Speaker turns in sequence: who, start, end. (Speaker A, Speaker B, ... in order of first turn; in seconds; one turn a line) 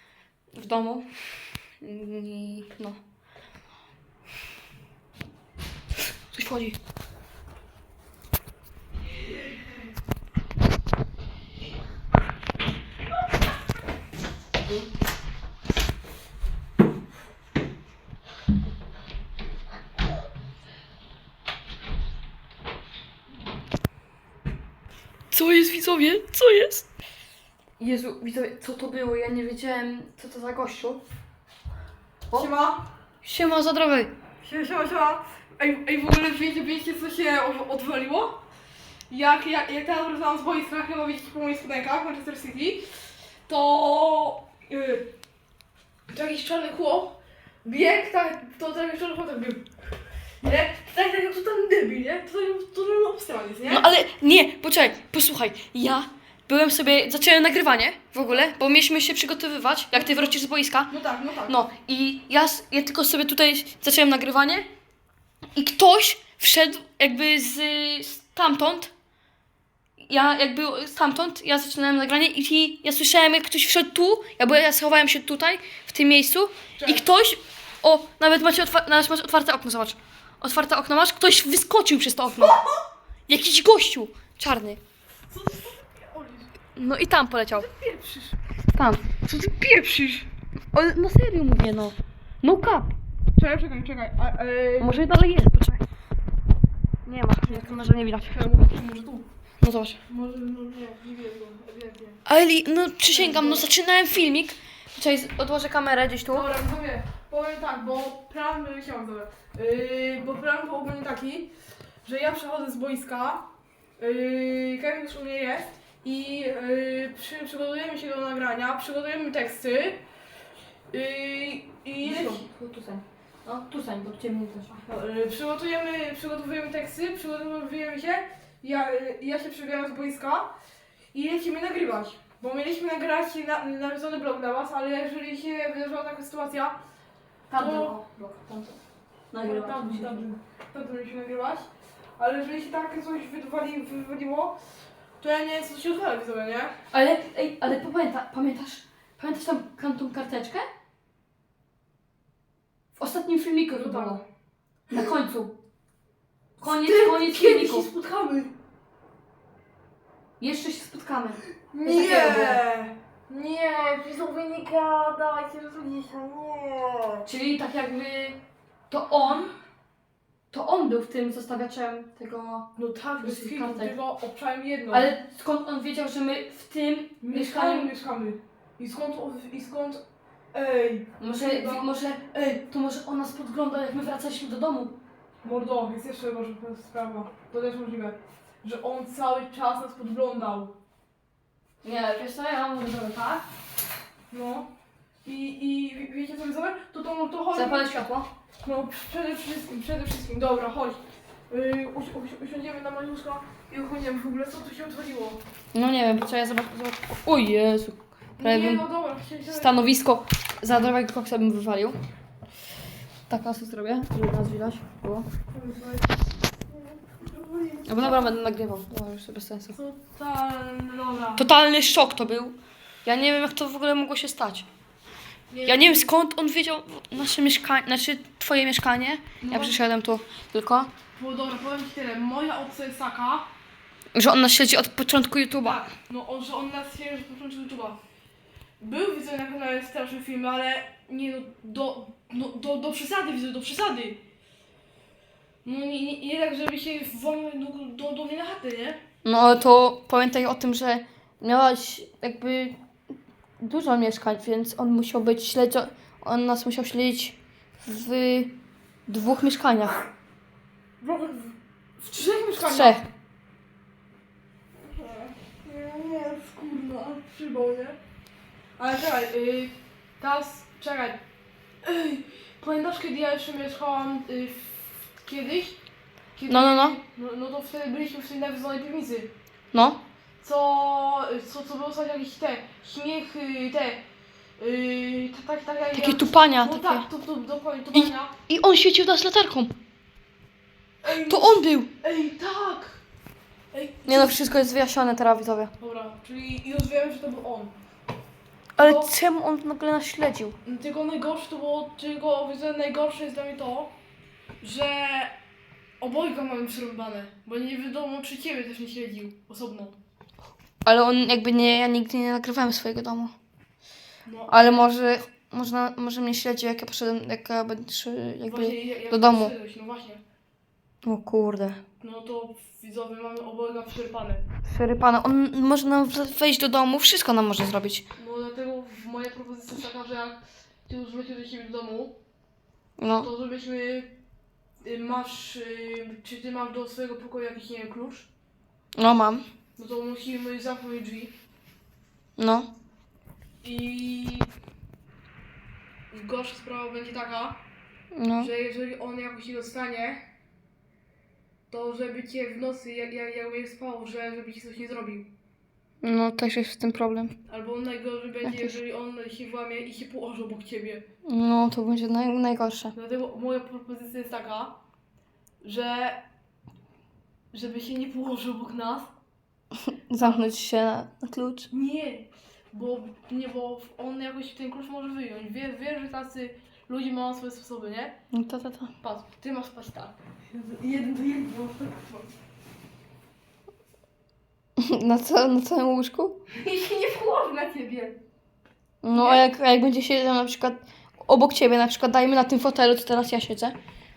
Speaker A: 0.5-3.0
Speaker A: 6.3-6.8
Speaker A: 25.3-26.9
Speaker A: 27.8-31.0
Speaker B: 32.3-32.9
Speaker A: 33.2-34.1
Speaker B: 34.4-38.4
Speaker B: 39.1-42.8
Speaker B: 43.5-45.1
Speaker B: 46.1-49.7
Speaker B: 50.4-53.9
Speaker A: 53.7-60.9
Speaker B: 59.9-60.3
Speaker B: 60.9-61.6
Speaker A: 61.5-64.7
Speaker A: 65.5-68.9
Speaker A: 70.0-82.6
Speaker B: 76.8-77.0
Speaker B: 82.4-82.8
Speaker A: 83.3-84.8
Speaker B: 85.3-86.5
Speaker A: 86.8-87.7
Speaker B: 87.5-88.4
Speaker A: 88.7-92.9
Speaker B: 89.3-90.2
Speaker B: 93.3-95.0
Speaker A: 94.8-95.8
Speaker A: 97.0-98.4
Speaker B: 97.4-99.3
Speaker A: 99.6-100.0
Speaker B: 100.1-102.2
Speaker A: 102.2-106.5
Speaker B: 103.1-103.7
Speaker B: 106.3-111.5
Speaker B: 112.0-120.0
Speaker B: 120.9-122.4
Speaker A: 122.0-124.8
Speaker B: 124.8-130.5
Speaker B: 131.1-136.8
Speaker A: 137.5-138.8
Speaker B: 137.6-138.0
Speaker A: 139.3-140.2
Speaker B: 139.4-144.6
Speaker B: 145.2-146.7
Speaker A: 146.9-150.7
Speaker A: 153.0-154.2
Speaker B: 153.7-154.2
Speaker A: 154.9-155.5
Speaker A: 156.6-157.9
Speaker B: 156.6-158.5
Speaker A: 160.4-162.6
Speaker B: 161.7-167.2
Speaker A: 167.2-168.4
Speaker A: 168.9-169.5
Speaker A: 170.5-173.9
Speaker B: 172.8-175.1
Speaker A: 174.9-177.9
Speaker B: 177.2-181.9
Speaker A: 181.2-184.9
Speaker B: 185.4-190.7
Speaker A: 191.8-193.4
Speaker B: 194.3-194.7
Speaker B: 195.2-197.9
Speaker A: 197.5-198.3
Speaker B: 198.6-205.4
Speaker A: 205.7-208.8
Speaker B: 208.4-209.8
Speaker A: 209.5-212.0
Speaker A: 213.3-215.3
Speaker B: 215.5-216.2
Speaker B: 216.7-218.3
Speaker A: 217.8-219.8
Speaker B: 219.7-221.5
Speaker A: 221.3-224.7
Speaker B: 225.5-226.1
Speaker A: 225.6-230.9
Speaker B: 229.4-229.8
Speaker B: 231.2-233.5
Speaker A: 234.1-235.8
Speaker B: 235.6-238.0
Speaker B: 238.8-244.2
Speaker B: 245.6-249.0
Speaker A: 249.2-252.8
Speaker A: 253.6-258.5
Speaker A: 259.1-260.0
Speaker B: 261.0-263.0
Speaker A: 262.6-263.0
Speaker B: 264.8-268.0
Speaker B: 268.8-271.2
Speaker B: 271.8-275.8
Speaker B: 276.4-279.3
Speaker A: 276.5-277.0
Speaker A: 279.7-280.0
Speaker B: 280.4-284.0
Speaker B: 284.6-288.3
Speaker A: 285.9-287.1
Speaker A: 287.9-289.7
Speaker B: 291.0-293.0
Speaker A: 291.2-291.9
Speaker B: 293.7-294.4
Speaker A: 294.1-295.7
Speaker B: 295.8-297.7
Speaker B: 298.8-299.1
Speaker A: 298.8-300.6
Speaker B: 300.6-303.9
Speaker B: 304.6-305.3
Speaker B: 306.0-310.0
Speaker A: 310.8-313.3
Speaker B: 314.2-314.9
Speaker A: 314.5-319.5
Speaker B: 318.4-320.2
Speaker A: 321.0-321.8
Speaker B: 322.0-324.4
Speaker A: 324.6-328.0
Speaker B: 328.2-332.1
Speaker A: 333.0-333.3
Speaker B: 333.2-334.1
Speaker B: 334.8-338.3
Speaker A: 338.9-339.4
Speaker B: 339.8-341.3
Speaker A: 342.4-342.7
Speaker B: 343.6-344.5
Speaker B: 346.1-347.6
Speaker A: 348.1-348.5
Speaker B: 348.4-350.2
Speaker B: 351.7-355.3
Speaker A: 356.0-357.4
Speaker B: 357.5-361.0
Speaker A: 358.4-358.7
Speaker A: 361.2-362.9
Speaker B: 362.9-364.8
Speaker B: 365.6-366.2
Speaker B: 367.5-369.1
Speaker A: 369.8-371.7
Speaker B: 370.2-370.4
Speaker B: 371.7-378.2
Speaker A: 378.3-378.9
Speaker B: 379.0-382.3
Speaker A: 384.8-386.4
Speaker B: 386.5-388.1
Speaker A: 389.0-393.7
Speaker B: 389.1-389.5